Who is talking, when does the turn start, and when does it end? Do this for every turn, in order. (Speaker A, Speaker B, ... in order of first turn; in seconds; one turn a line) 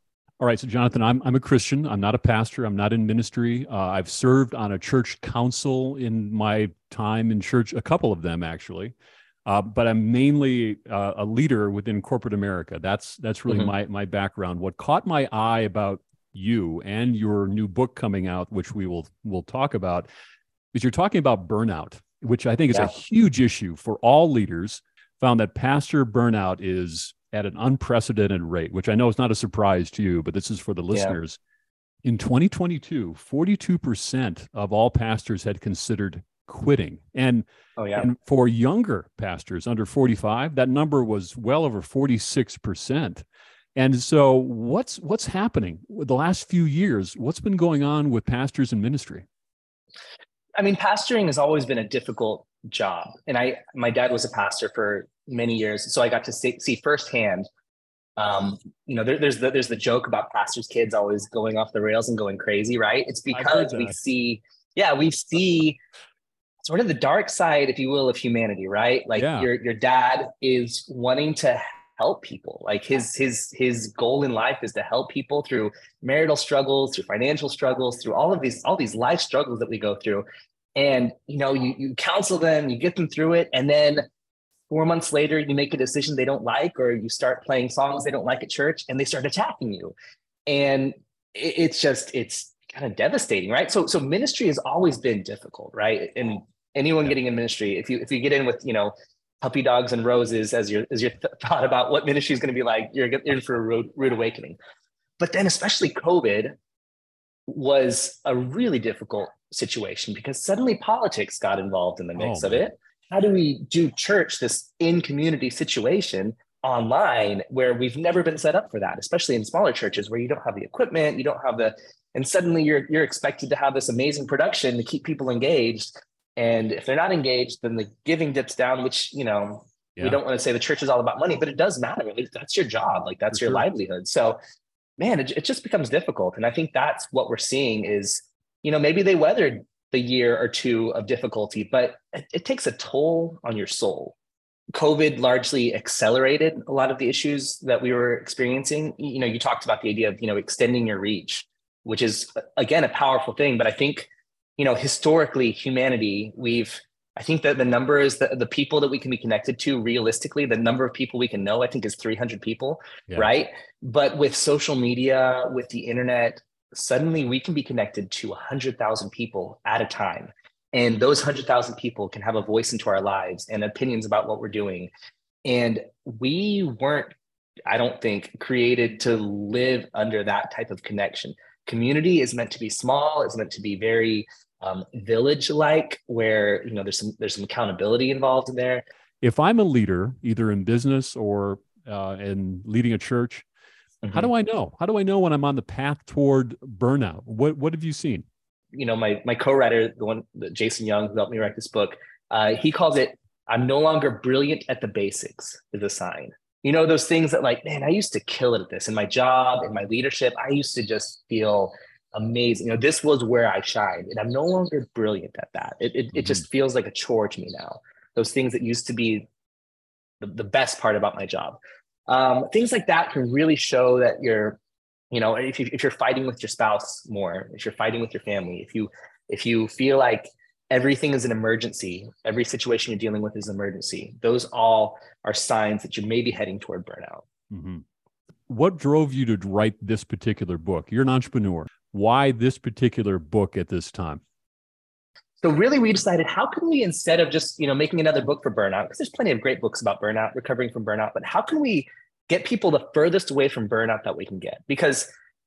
Speaker A: 0.4-8.9
Speaker A: 9.4-20.1
Speaker A: 20.7-31.4
Speaker B: 30.9-31.2
Speaker A: 32.0-43.2
Speaker B: 37.8-38.1
Speaker A: 43.8-49.2
Speaker B: 50.6-57.5
Speaker B: 58.2-65.8
Speaker A: 63.3-63.9
Speaker B: 66.6-80.2
Speaker A: 69.2-69.5
Speaker B: 80.8-84.0
Speaker B: 84.7-89.9
Speaker B: 90.5-104.6
Speaker B: 105.2-106.5
Speaker B: 107.5-134.4
Speaker A: 112.2-112.6
Speaker A: 133.3-133.6
Speaker B: 135.0-144.1
Speaker B: 144.7-174.9
Speaker B: 175.4-177.1
Speaker B: 177.7-188.8
Speaker A: 189.2-193.4
Speaker B: 194.0-194.3
Speaker A: 194.1-198.2
Speaker B: 198.7-219.3
Speaker B: 220.2-224.6
Speaker B: 225.1-237.2
Speaker A: 237.5-237.8
Speaker A: 238.5-244.2
Speaker B: 245.4-255.1